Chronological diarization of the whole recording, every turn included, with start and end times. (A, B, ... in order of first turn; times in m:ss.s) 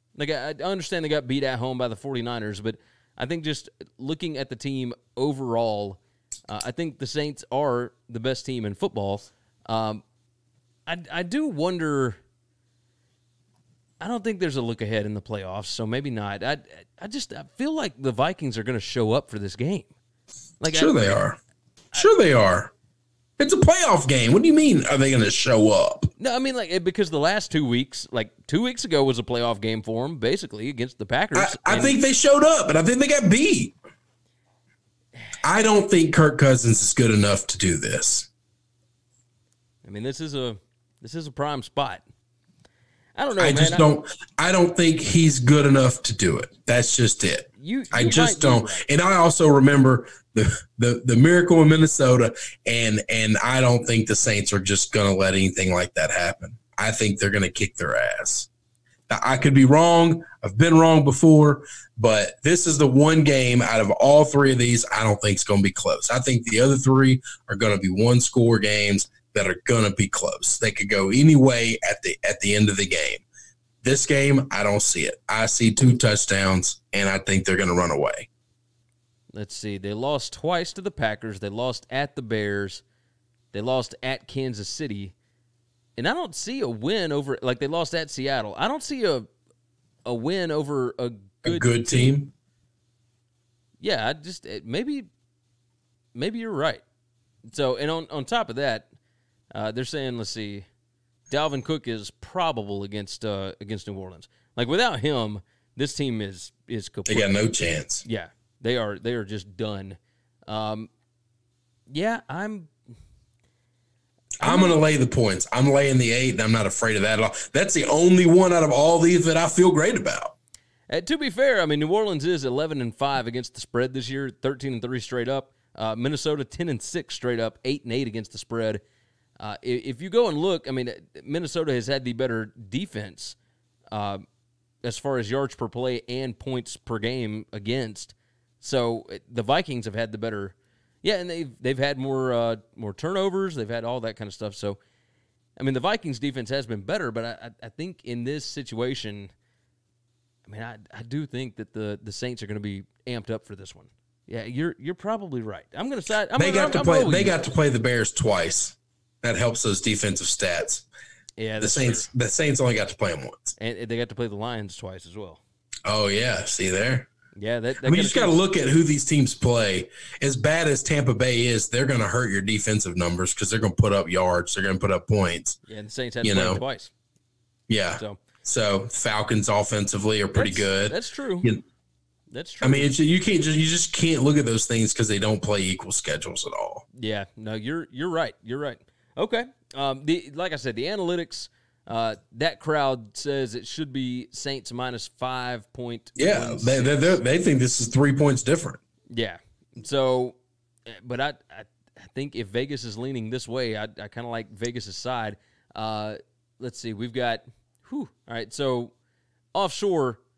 0:00.2-0:10.0 A
0:10.9-0:12.2 A
0:14.0-0:19.9 A
0:20.6-0:21.2 A
0:20.7-0:21.4 B
0:22.0-0:22.7 B
0:23.4-0:26.1 B
0:26.2-0:32.0 A
0:31.4-0:33.8 B
0:35.4-0:38.3 B
0:39.8-0:42.0 A
0:43.2-0:43.9 A
0:43.4-0:58.5 B
0:47.6-0:48.9 A
0:59.1-1:13.2 B
1:13.8-1:18.3 B
1:19.4-1:22.8 A
1:23.5-1:25.2 A
1:26.0-1:29.3 A
1:30.0-1:32.1 A
1:31.4-1:32.3 B
1:33.8-1:35.1 A
1:36.2-1:36.8 A
1:37.5-1:38.9 A
1:39.5-1:40.7 A
1:41.3-1:47.3 A
1:47.1-1:48.1 B
1:48.0-1:50.9 A
1:51.9-1:52.7 A
1:54.4-2:00.3 B
1:54.4-1:54.8 A
2:00.9-2:08.8 A
2:09.4-2:13.4 A
2:13.9-2:14.2 A
2:14.8-2:24.8 A
2:25.6-2:29.3 A
2:30.5-2:37.4 A
2:36.4-2:40.9 B
2:41.4-2:42.1 A
2:41.6-2:43.6 B
2:43.6-2:45.4 A
2:45.9-2:47.1 B
2:47.4-2:48.4 A
2:47.8-2:55.6 B
2:55.7-2:56.9 A
2:56.2-2:56.6 B
2:57.7-3:01.6 B
2:58.0-2:58.2 A
3:00.3-3:01.5 A
3:02.3-3:02.9 A
3:02.6-3:06.8 B
3:07.0-3:17.2 A
3:16.2-3:18.8 B
3:19.1-3:20.4 A
3:20.9-3:28.9 A
3:29.5-3:30.2 A